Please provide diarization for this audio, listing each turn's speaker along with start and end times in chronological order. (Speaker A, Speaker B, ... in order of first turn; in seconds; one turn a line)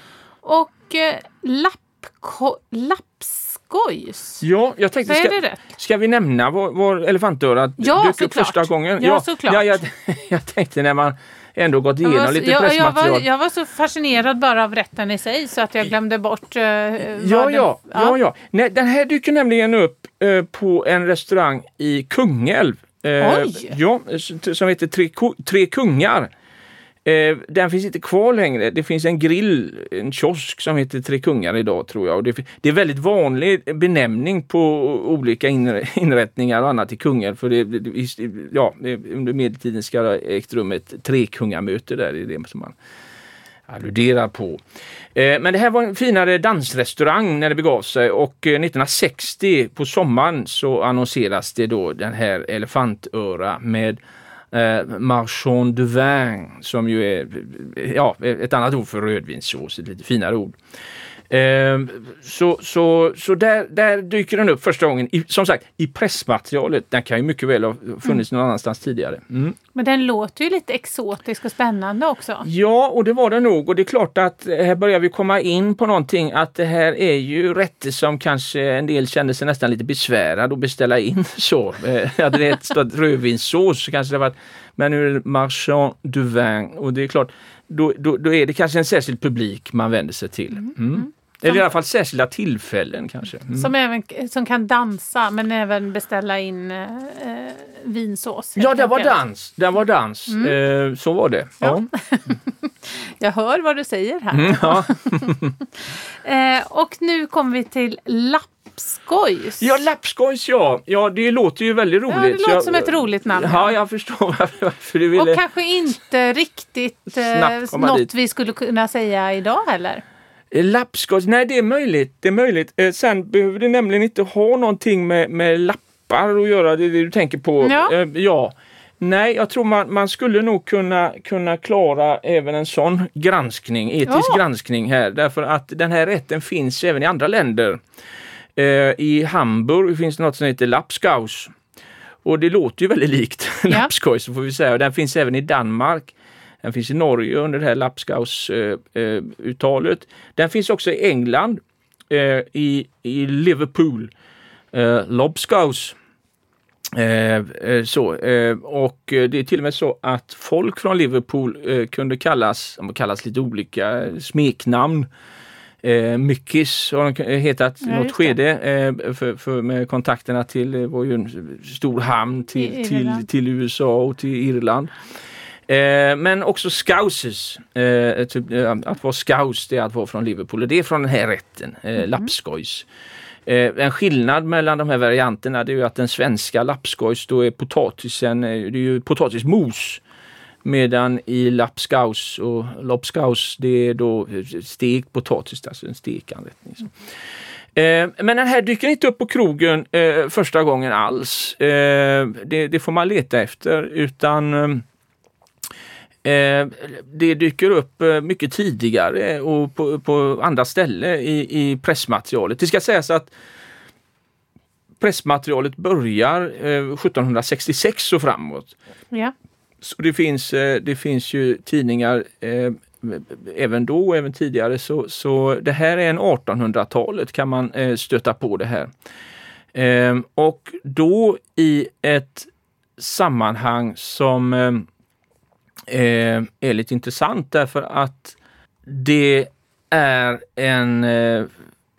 Speaker A: 0.4-4.4
Speaker B: 4.4-13.2
Speaker A: 5.1-5.6
Speaker A: 7.8-9.7
Speaker A: 12.0-18.1
Speaker B: 17.0-26.3
Speaker A: 23.2-23.7
Speaker B: 27.0-42.8
Speaker B: 43.7-44.6
Speaker B: 45.1-54.0
Speaker B: 54.5-60.5
Speaker B: 61.3-69.6
Speaker A: 69.7-72.4
Speaker B: 72.4-93.7
Speaker A: 93.5-99.1
Speaker B: 98.6-101.9
Speaker A: 100.3-100.5
Speaker A: 101.6-109.7
Speaker B: 104.3-105.5
Speaker B: 109.6-115.4
Speaker A: 112.1-113.7
Speaker A: 115.1-120.0
Speaker B: 117.1-118.1
Speaker B: 120.5-137.8
Speaker A: 127.6-127.9
Speaker A: 134.1-134.4
Speaker B: 138.6-141.5
Speaker B: 142.2-154.1
Speaker B: 154.7-155.9
Speaker B: 156.9-165.1
Speaker B: 165.8-174.9
Speaker A: 167.8-168.3
Speaker A: 172.6-173.2
Speaker B: 175.7-182.8
Speaker B: 183.4-190.0
Speaker B: 190.6-196.9
Speaker B: 197.7-204.8
Speaker B: 206.2-213.3
Speaker B: 215.0-218.7
Speaker B: 219.8-228.9
Speaker B: 229.7-234.8
Speaker B: 235.9-241.5